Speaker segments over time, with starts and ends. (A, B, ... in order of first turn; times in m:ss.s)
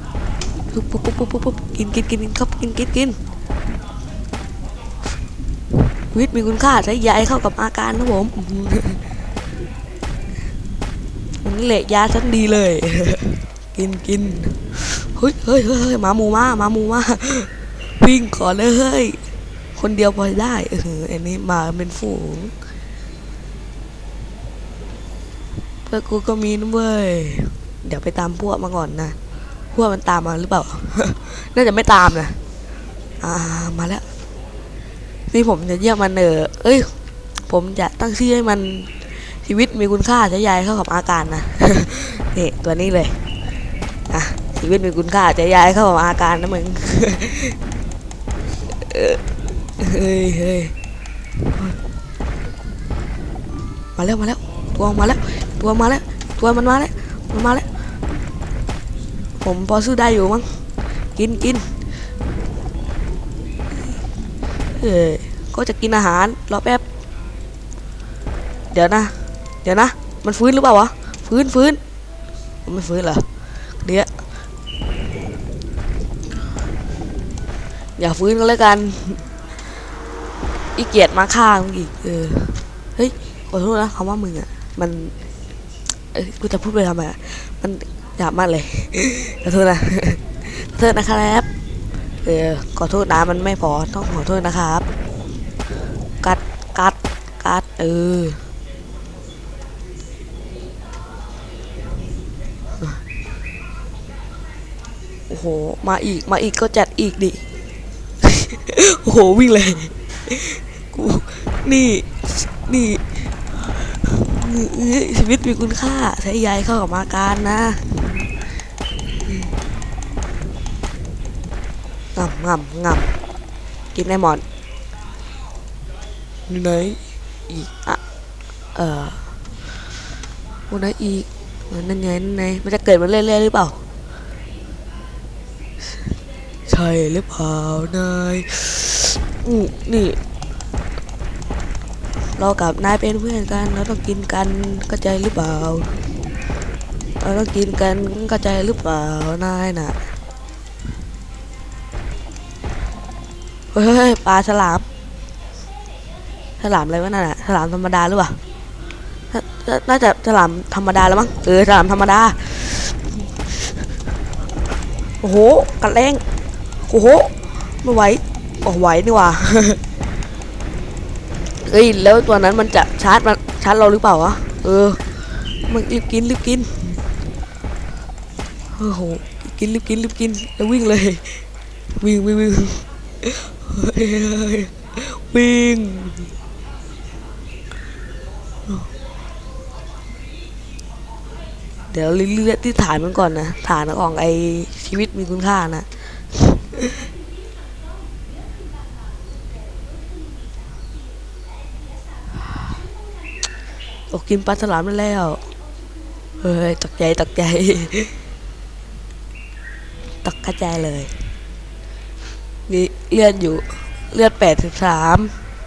0:00.7-0:03.2 A
0:05.7-0:09.0 A
0:11.4-0:19.2 A
0:19.8-0:22.5 A
0:25.8-0:29.2 A
0:29.7-0:32.4 A
0:33.2-0:34.0 A
0:35.3-0:36.9 A
0:37.4-0:43.2 A
0:44.1-0:47.6 A
0:48.7-0:49.2 A
0:49.8-0:50.7 A
0:51.4-0:51.8 A
0:54.0-0:57.7 A
0:59.4-1:00.6 A
1:01.2-1:01.8 A
1:04.8-1:06.8 A
1:08.7-1:11.8 A
1:12.6-1:13.2 A
1:13.8-1:14.1 A
1:18.0-1:19.3 A
1:20.8-1:25.1 A
1:26.1-1:31.5 A
1:32.2-1:34.9 A
1:36.2-1:38.4 A
1:45.3-1:47.4 A
1:48.2-1:58.2 A
2:02.1-2:03.1 A
2:03.9-2:04.4 A
2:06.5-2:08.0 A
2:08.7-2:09.3 A
2:10.7-2:13.8 A
2:16.7-2:20.2 A
2:22.4-2:26.0 A
2:27.2-2:30.1 A
2:33.7-2:34.8 A
2:36.6-2:38.4 A
2:39.3-2:43.7 A
2:45.2-2:46.2 A
2:46.8-2:49.8 A
2:51.6-2:55.0 A
2:55.6-2:57.0 A
2:58.7-3:06.3 A
3:11.9-3:16.9 A
3:24.1-3:25.4 A
3:26.4-3:28.1 A
3:30.2-3:31.2 A
3:32.7-3:35.3 A